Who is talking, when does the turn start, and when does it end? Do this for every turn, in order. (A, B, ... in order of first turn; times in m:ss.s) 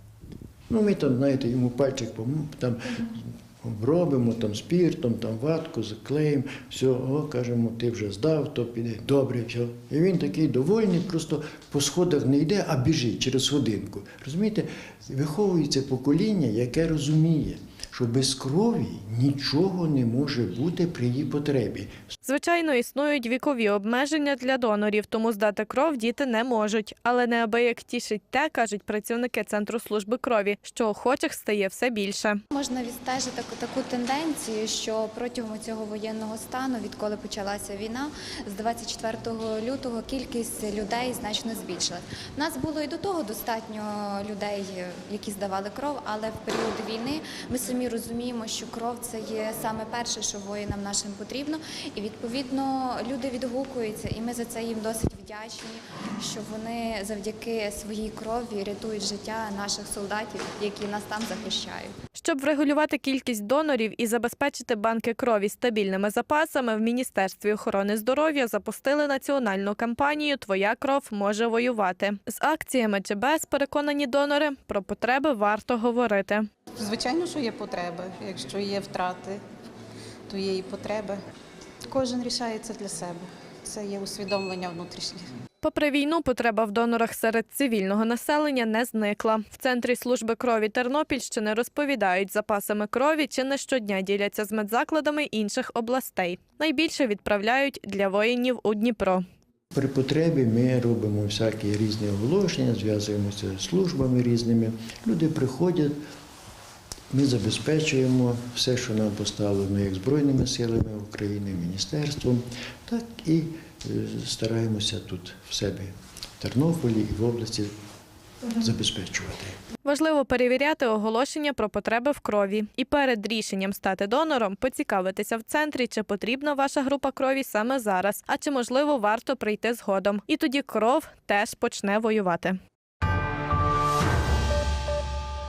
0:00.7-0:22.0 A
0:22.2-0:32.4 B
0:32.5-1:01.9 C
1:02.2-1:16.5 B
1:16.8-1:19.4 D
1:20.3-1:21.2 D
1:21.9-1:25.3 D
1:25.6-1:39.2 B
1:39.7-1:46.0 A
1:47.1-1:57.7 A
1:58.5-1:59.6 A
1:59.8-2:12.6 B